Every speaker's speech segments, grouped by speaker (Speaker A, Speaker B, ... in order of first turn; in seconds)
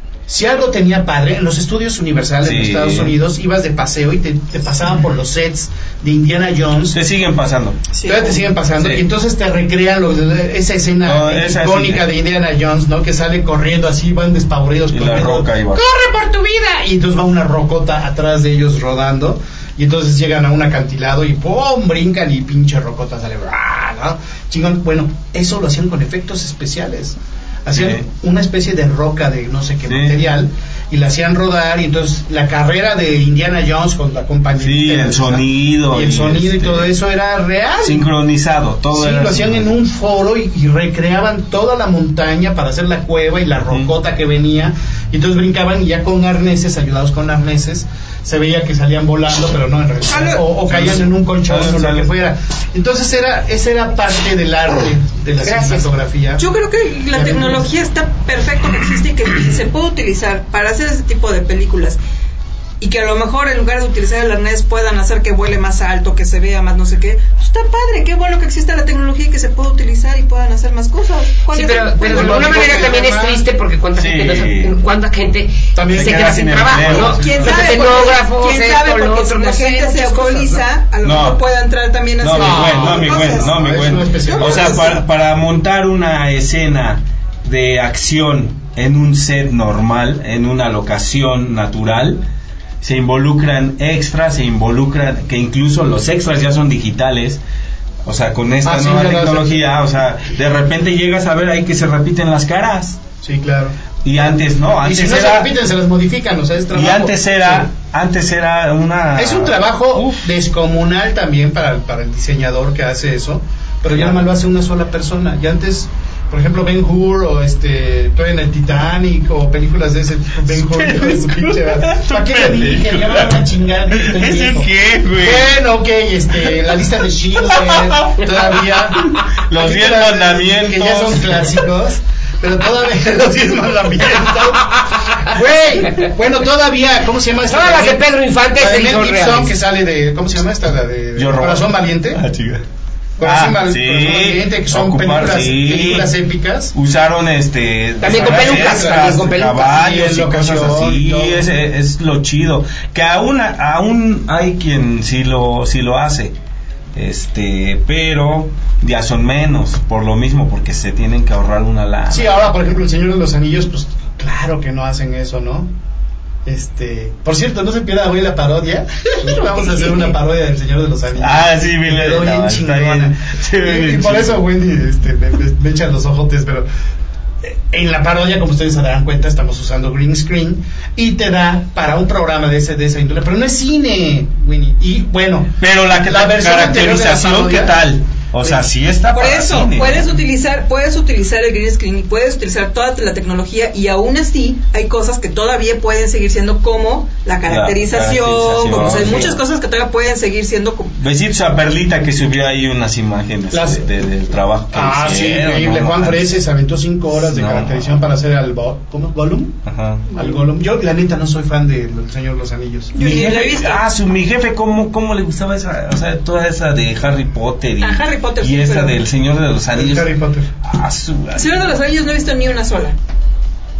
Speaker A: 0.3-7.0, 8.0-38.1, 38.9-56.5, 57.1-57.7, 72.0-73.4, 75.7-77.8, 82.3-85.0, 98.6-99.6, 103.2-103.7, 104.8-107.7, 109.1-142.2, 143.2-146.7, 148.0-151.5, 162.1-165.7, 166.4-176.7, 177.4-187.8, 203.5-203.9, 204.7-212.9, 219.7-220.5
Speaker B: 2.4-3.1, 6.9-7.8, 11.0-12.0, 14.9-15.8, 27.7-28.0, 29.9-30.2, 34.6-36.9, 37.8-39.7, 50.7-52.1, 73.9-74.8, 75.9-77.3, 81.0-81.4, 82.2-92.2, 92.8-97.4, 98.0-103.0, 104.0-105.5, 106.7-110.2, 113.9-114.2, 120.5-125.5, 127.5-131.6, 141.2-142.6, 143.2-146.1, 146.7-156.3, 156.9-162.4, 171.2-174.4, 185.6-190.1, 197.5-199.4, 201.0-206.3, 207.2-208.0, 209.7-210.1, 213.0-220.1, 220.6-221.8
Speaker C: 7.9-8.4, 50.1-50.5, 56.4-62.0, 62.8-72.9, 76.9-85.0, 189.1-200.9, 212.9-213.8, 217.8-219.0, 221.3-222.9
Speaker D: 55.4-55.9, 71.5-80.6, 137.5-139.5, 148.0-149.7